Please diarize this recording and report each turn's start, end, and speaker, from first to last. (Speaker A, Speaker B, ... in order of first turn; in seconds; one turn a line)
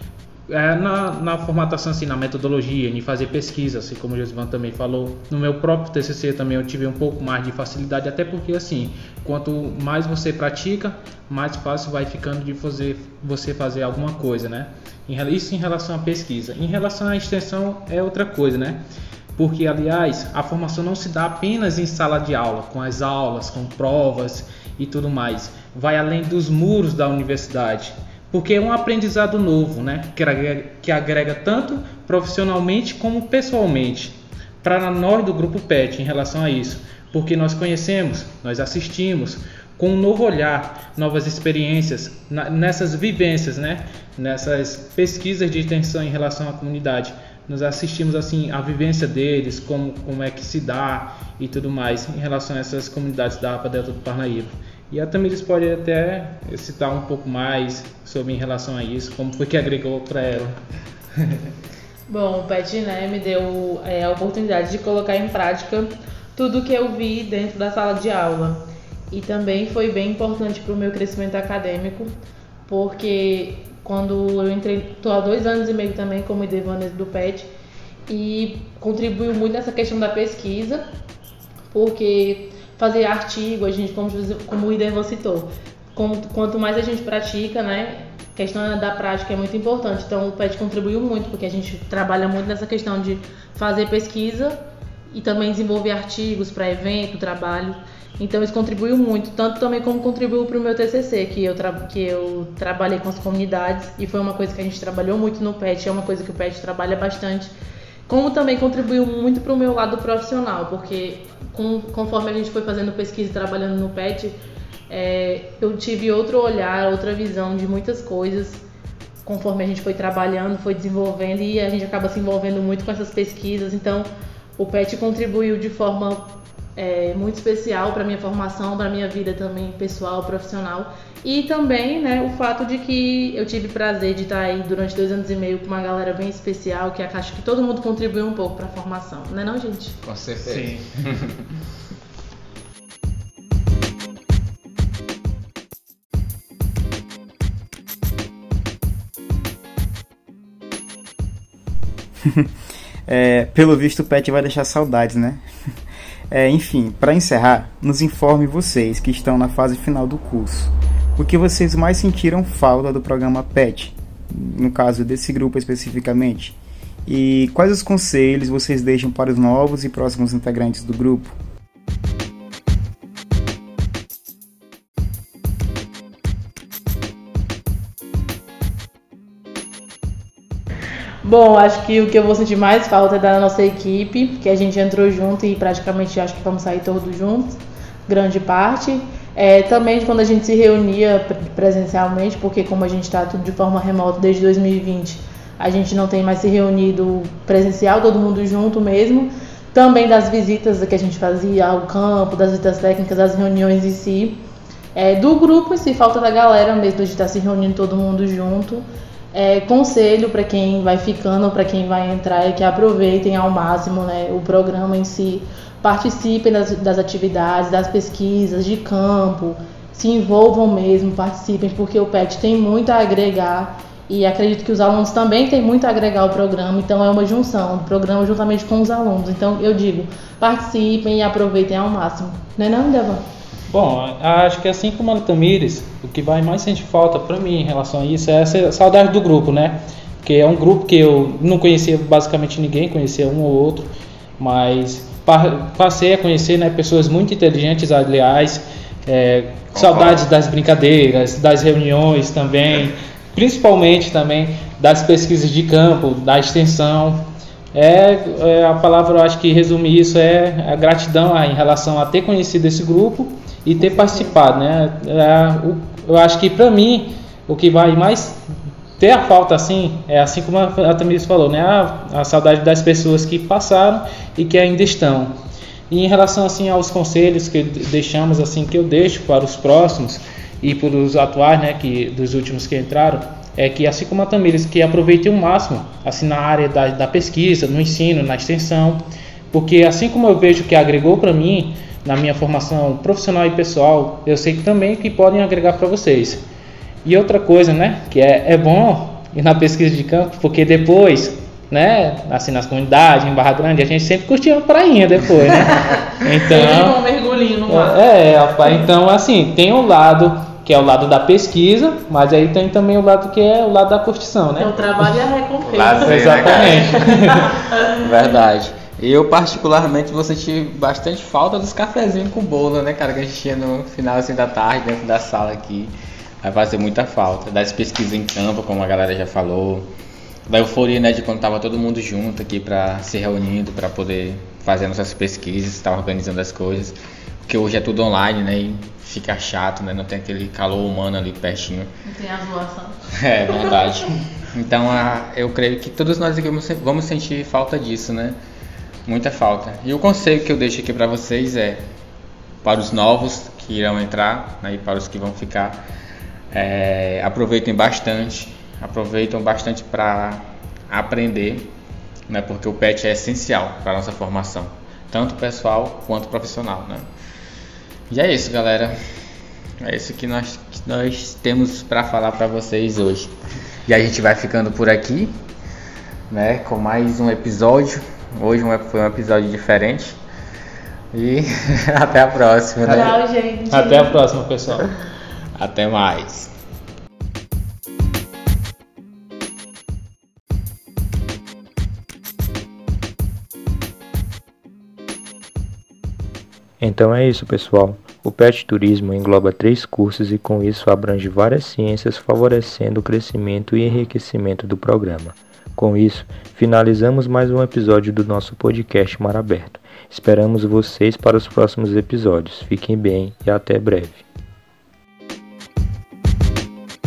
Speaker A: 0.5-18.8
Speaker A: 19.4-60.5
Speaker B: 62.1-72.1
Speaker B: 72.7-77.5
Speaker B: 78.1-80.8
Speaker B: 81.7-94.6
Speaker B: 95.1-107.5
Speaker B: 108.1-114.3
Speaker B: 114.9-118.6
Speaker B: 119.2-140.0
Speaker C: 140.0-141.4
Speaker A: 140.4-140.9
Speaker D: 152.2-152.5
Speaker D: 153.1-155.4
Speaker D: 156.3-171.3
Speaker B: 181.2-204.4
Speaker B: 204.9-233.2
Speaker A: 233.7-268.4
Speaker C: 249.7-250.2
Speaker B: 263.8-264.4
Speaker A: 269.0-275.3
Speaker A: 275.9-296.4
Speaker A: 297.0-307.0
Speaker B: 306.5-308.0
Speaker A: 307.7-314.8
Speaker B: 314.6-317.8
Speaker C: 315.6-317.1
Speaker A: 316.0-317.6
Speaker C: 317.9-329.9
Speaker C: 330.5-341.9
Speaker B: 342.0-343.0
Speaker C: 343.1-348.4
Speaker B: 343.5-343.8
Speaker C: 349.1-351.8
Speaker C: 352.6-355.8
Speaker C: 356.5-361.7
Speaker C: 362.3-367.1
Speaker C: 368.1-368.9
Speaker C: 369.8-373.3
Speaker C: 373.9-375.3
Speaker C: 376.3-380.2
Speaker C: 381.1-383.2
Speaker A: 382.9-383.1
Speaker B: 382.9-384.2
Speaker A: 383.7-384.9
Speaker C: 385.6-386.5
Speaker E: 396.8-414.2